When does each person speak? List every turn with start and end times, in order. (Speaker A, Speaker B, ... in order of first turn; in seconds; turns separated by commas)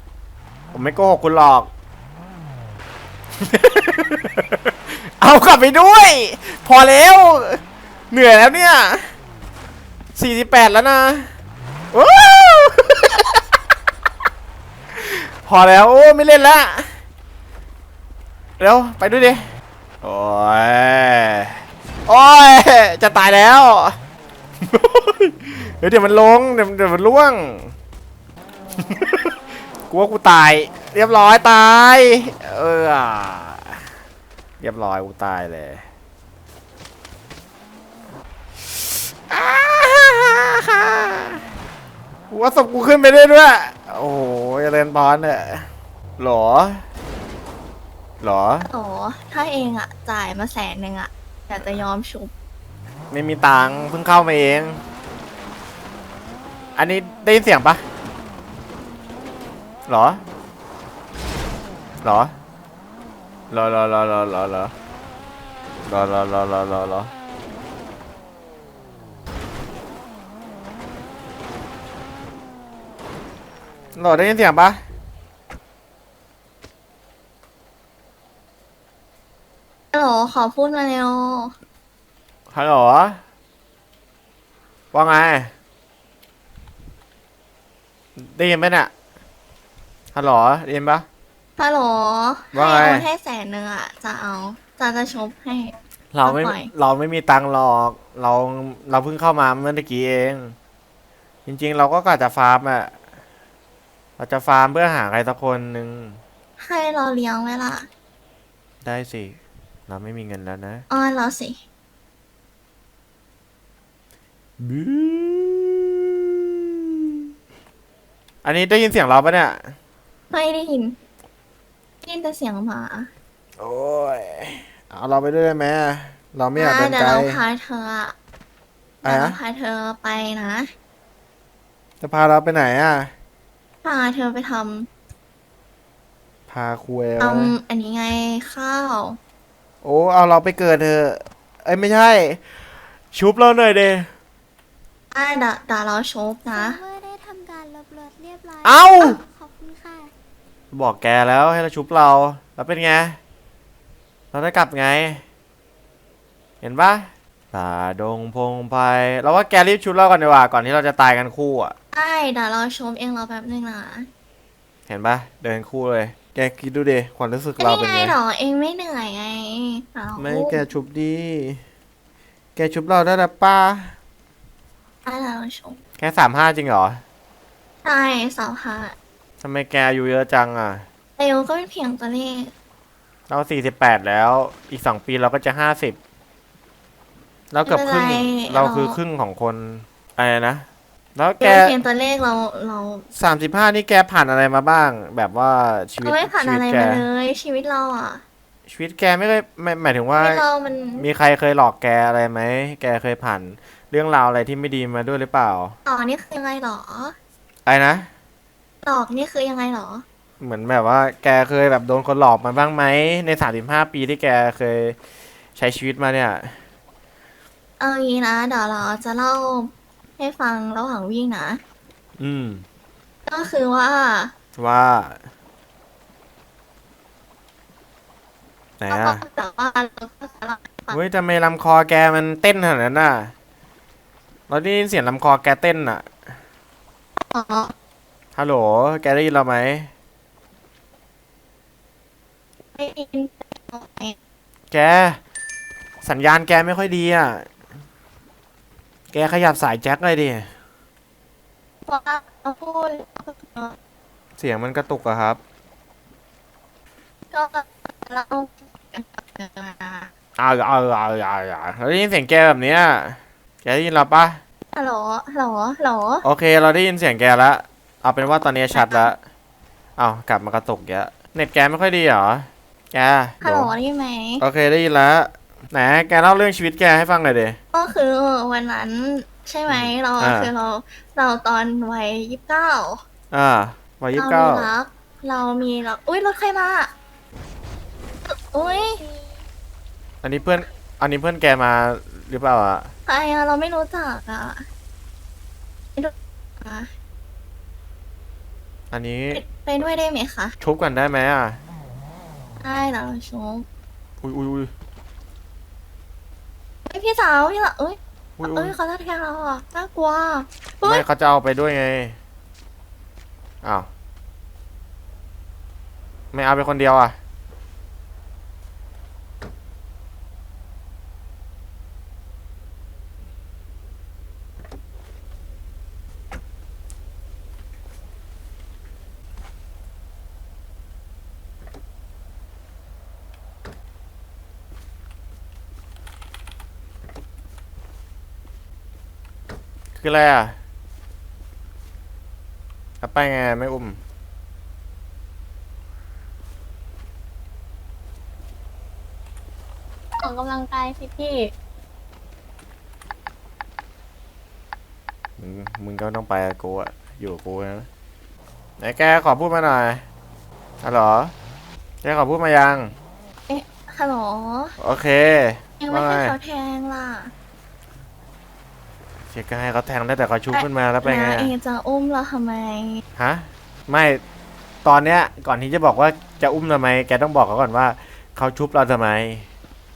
Speaker A: 0.7-1.7, Speaker A: 3.4-9.1, Speaker A: 10.2-11.3, Speaker A: 11.9-13.4, Speaker A: 14.9-16.9, Speaker A: 18.6-19.5, Speaker A: 20.0-24.0, Speaker A: 24.6-27.7, Speaker A: 28.9-29.3, Speaker A: 29.9-33.8, Speaker A: 34.6-35.8, Speaker A: 39.3-41.4, Speaker A: 42.3-46.8, Speaker A: 48.2-48.7, Speaker B: 48.7-52.3, Speaker A: 53.1-54.8, Speaker A: 56.8-57.8, Speaker A: 59.9-60.2, Speaker A: 62.0-62.3, Speaker A: 63.5-64.7, Speaker A: 65.8-67.1, Speaker A: 73.9-74.8, Speaker B: 79.9-81.5, Speaker A: 82.5-83.2, Speaker A: 84.9-85.5, Speaker A: 88.2-88.9, Speaker A: 90.1-91.0, Speaker B: 91.6-96.7, Speaker A: 92.5-93.1, Speaker A: 96.1-100.5, Speaker A: 101.5-102.9, Speaker A: 104.2-106.2, Speaker B: 106.6-107.9, Speaker A: 108.8-110.8, Speaker B: 110.9-111.6, Speaker A: 114.6-115.9, Speaker A: 118.4-119.7, Speaker B: 120.3-121.0, Speaker B: 122.0-123.1, Speaker A: 123.6-127.4, Speaker B: 126.5-128.2, Speaker A: 129.0-129.4, Speaker B: 129.0-130.7, Speaker A: 132.0-133.1, Speaker B: 133.8-134.9, Speaker A: 136.5-137.5, Speaker B: 137.2-139.2, Speaker A: 139.8-142.4, Speaker A: 143.1-144.1, Speaker B: 145.1-146.8, Speaker C: 146.5-150.1, Speaker A: 148.6-149.2, Speaker A: 150.7-153.2, Speaker A: 154.3-155.2, Speaker A: 156.6-161.7, Speaker B: 161.9-164.1, Speaker A: 164.9-168.2, Speaker B: 167.6-170.6, Speaker A: 170.2-171.6, Speaker A: 172.6-173.9, Speaker B: 175.0-175.8, Speaker A: 176.0-177.0, Speaker B: 177.8-178.9, Speaker A: 179.4-180.8, Speaker B: 181.2-182.5, Speaker A: 183.3-186.0, Speaker A: 187.5-191.8, Speaker B: 187.7-189.0, Speaker B: 191.4-193.1, Speaker A: 193.2-197.1, Speaker B: 196.0-198.2, Speaker A: 198.7-200.4, Speaker B: 200.2-201.1, Speaker A: 201.0-205.7, Speaker B: 205.8-207.1, Speaker A: 207.7-208.1, Speaker B: 208.8-210.0, Speaker A: 210.4-215.0, Speaker A: 215.6-216.6, Speaker B: 217.8-221.6, Speaker A: 222.2-222.6, Speaker B: 223.2-224.3, Speaker A: 224.6-225.2, Speaker A: 228.8-229.2, Speaker B: 228.9-231.0, Speaker A: 230.9-233.3, Speaker A: 234.5-236.1, Speaker B: 237.2-237.7, Speaker A: 238.3-239.9, Speaker B: 242.7-244.2, Speaker A: 244.7-245.2, Speaker A: 246.0-247.5, Speaker A: 249.1-250.5, Speaker B: 251.9-253.8, Speaker A: 254.4-255.4, Speaker B: 257.3-260.1, Speaker A: 260.4-264.4, Speaker B: 264.7-266.2, Speaker A: 266.2-269.2, Speaker B: 268.7-269.1, Speaker A: 270.0-273.7, Speaker B: 273.4-274.4, Speaker A: 274.4-277.6, Speaker B: 277.7-283.0, Speaker A: 279.7-280.5, Speaker A: 283.3-284.7, Speaker B: 284.1-286.9, Speaker B: 288.3-289.0, Speaker C: 289.0-289.3, Speaker A: 290.2-292.9, Speaker B: 293.1-294.6, Speaker B: 295.9-296.9, Speaker A: 298.9-299.4, Speaker B: 299.3-300.6, Speaker A: 300.6-301.6, Speaker B: 302.6-303.6, Speaker A: 304.2-304.7, Speaker B: 306.9-311.0, Speaker A: 308.4-308.8, Speaker A: 310.8-312.2, Speaker A: 316.3-317.1, Speaker A: 340.0-340.6, Speaker A: 343.0-344.0, Speaker B: 350.2-351.5, Speaker A: 355.4-357.9, Speaker A: 358.8-360.0, Speaker A: 360.8-361.3, Speaker A: 362.0-362.9, Speaker B: 363.5-364.8, Speaker A: 364.8-366.4, Speaker B: 365.8-367.3, Speaker A: 369.3-371.5, Speaker B: 370.5-373.0, Speaker A: 373.2-374.2, Speaker A: 374.8-379.5